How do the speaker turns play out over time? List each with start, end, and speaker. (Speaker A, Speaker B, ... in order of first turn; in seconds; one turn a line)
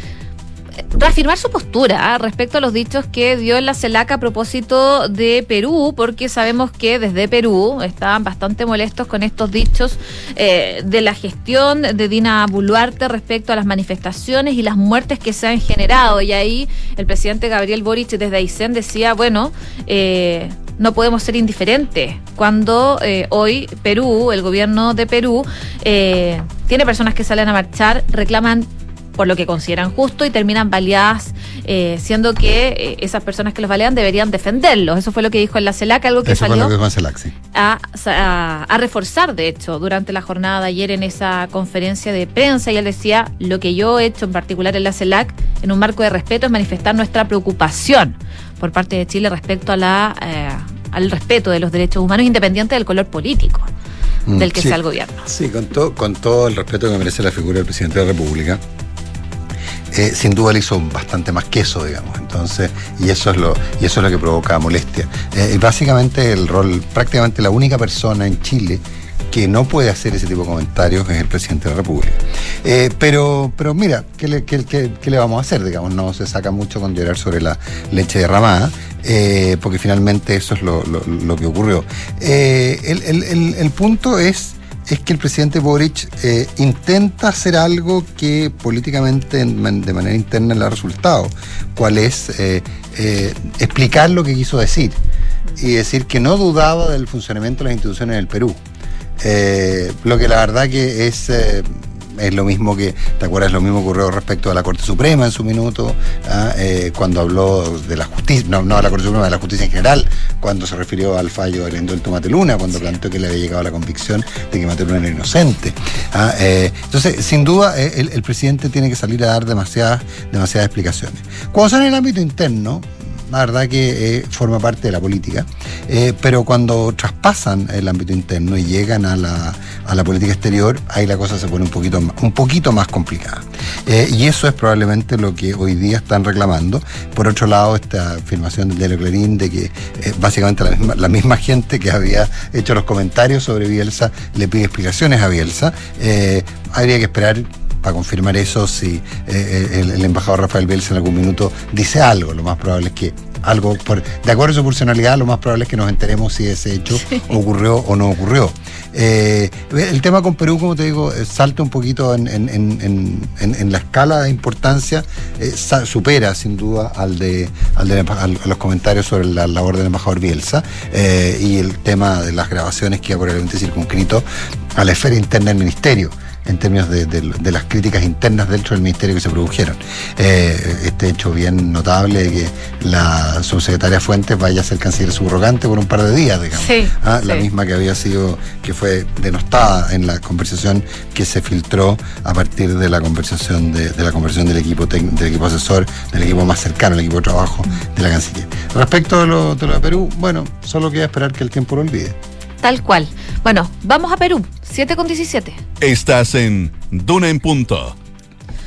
Speaker A: 0.9-36.7
Speaker B: 36.2-37.3
Speaker A: 37.5-53.7
Speaker B: 54.2-58.6
Speaker A: 54.4-55.2
Speaker B: 59.9-95.0
Speaker B: 95.6-98.6
Speaker B: 99.2-202.2
Speaker A: 186.6-187.4
Speaker A: 202.6-205.6
Speaker C: 205.8-207.9